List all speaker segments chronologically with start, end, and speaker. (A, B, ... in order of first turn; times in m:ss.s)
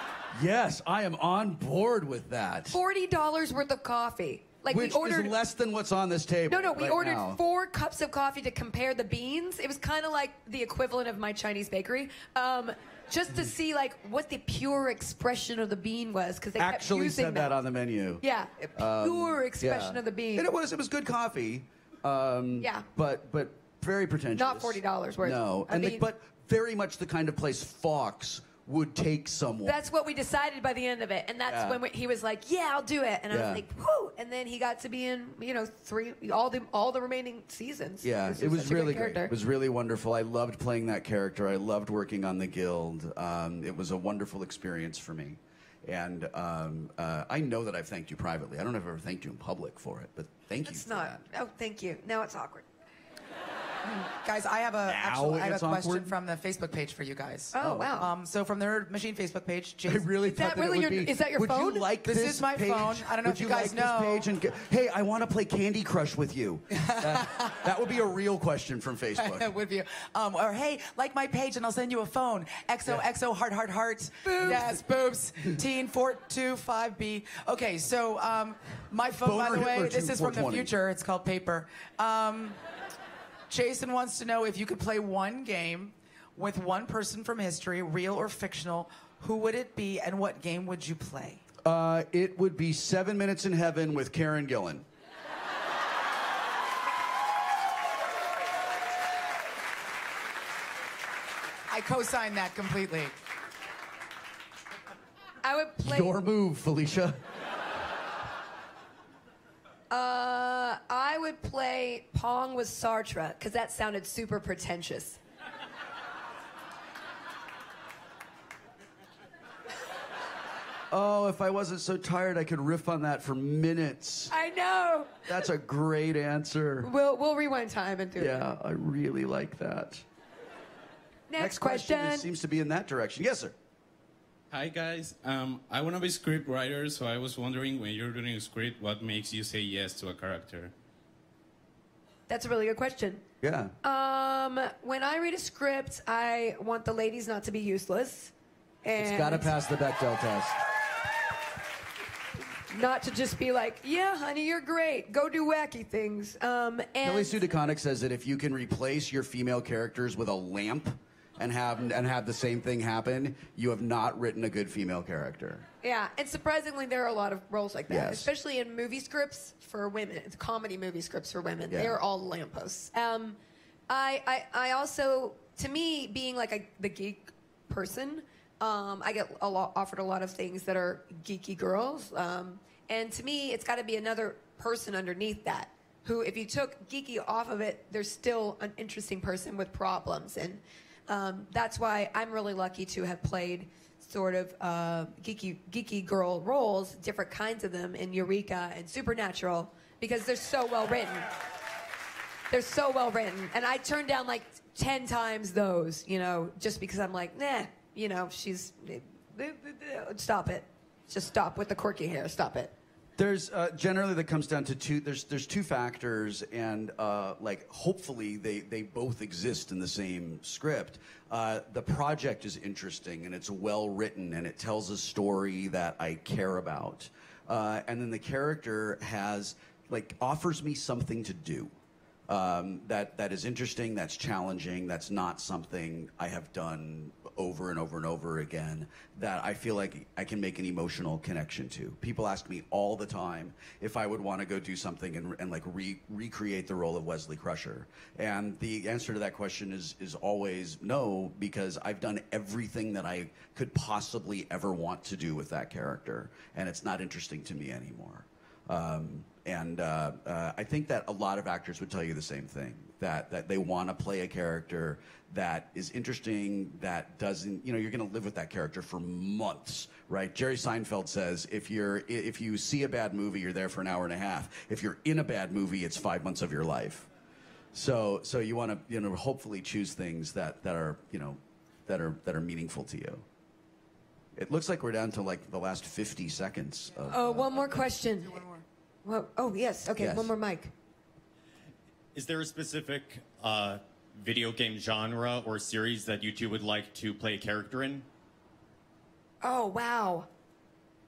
0:00.3-0:02.8 A
0:02.7-0:05.3 B
0:04.6-0:07.4 A
0:06.5-0:17.5 B
0:16.6-0:18.2 A
0:18.2-0:20.5 B
0:18.8-0:29.8 A
0:22.6-0:22.8 B
0:24.4-0:26.0 B
0:29.6-0:39.3 B
0:31.5-0:31.8 A
0:33.3-0:33.6 A
0:38.0-0:51.2 A
0:50.6-0:52.6 B
0:53.8-1:00.1 C
0:54.8-0:56.1 A
0:57.5-0:58.1 B
0:57.6-0:57.9 A
0:59.8-1:09.5 A
1:00.3-1:01.9 B
1:02.0-1:04.3 C
1:06.8-1:07.7 C
1:09.2-1:22.6 C
1:14.2-1:14.6 B
1:14.4-1:14.7 A
1:19.2-1:20.7 A
1:23.5-1:31.4 C
1:31.6-1:34.9 A
1:41.7-1:43.1 C
1:45.4-1:46.1 B
1:45.8-1:47.2 A
1:49.9-1:55.2 B
2:00.9-2:04.3 A
2:04.3-2:05.4 B
2:05.3-2:06.9 A
2:06.8-2:08.4 B
2:08.2-2:10.0 A
2:11.3-2:12.3 B
2:11.4-2:13.5 A
2:14.5-2:20.7 D
2:22.3-2:23.2 B
2:23.4-2:23.7 A
2:23.8-2:28.3 B
2:28.8-2:29.5 B
2:29.0-2:30.6 A
2:32.7-2:37.4 B
2:37.0-2:45.6 A
2:45.8-2:53.4 B
2:47.9-2:48.3 A
2:51.7-2:52.0 A
2:53.9-3:21.3 B
3:22.5-3:32.7 B
3:33.2-3:51.7 A
3:52.3-4:37.1 A
4:37.7-4:43.2 A
4:44.3-4:47.5 A
4:47.1-4:48.4 B
4:47.1-4:48.6 C
4:49.0-4:50.7 B
4:50.0-4:50.3 A
4:52.1-4:58.0 E
4:59.4-5:00.3 B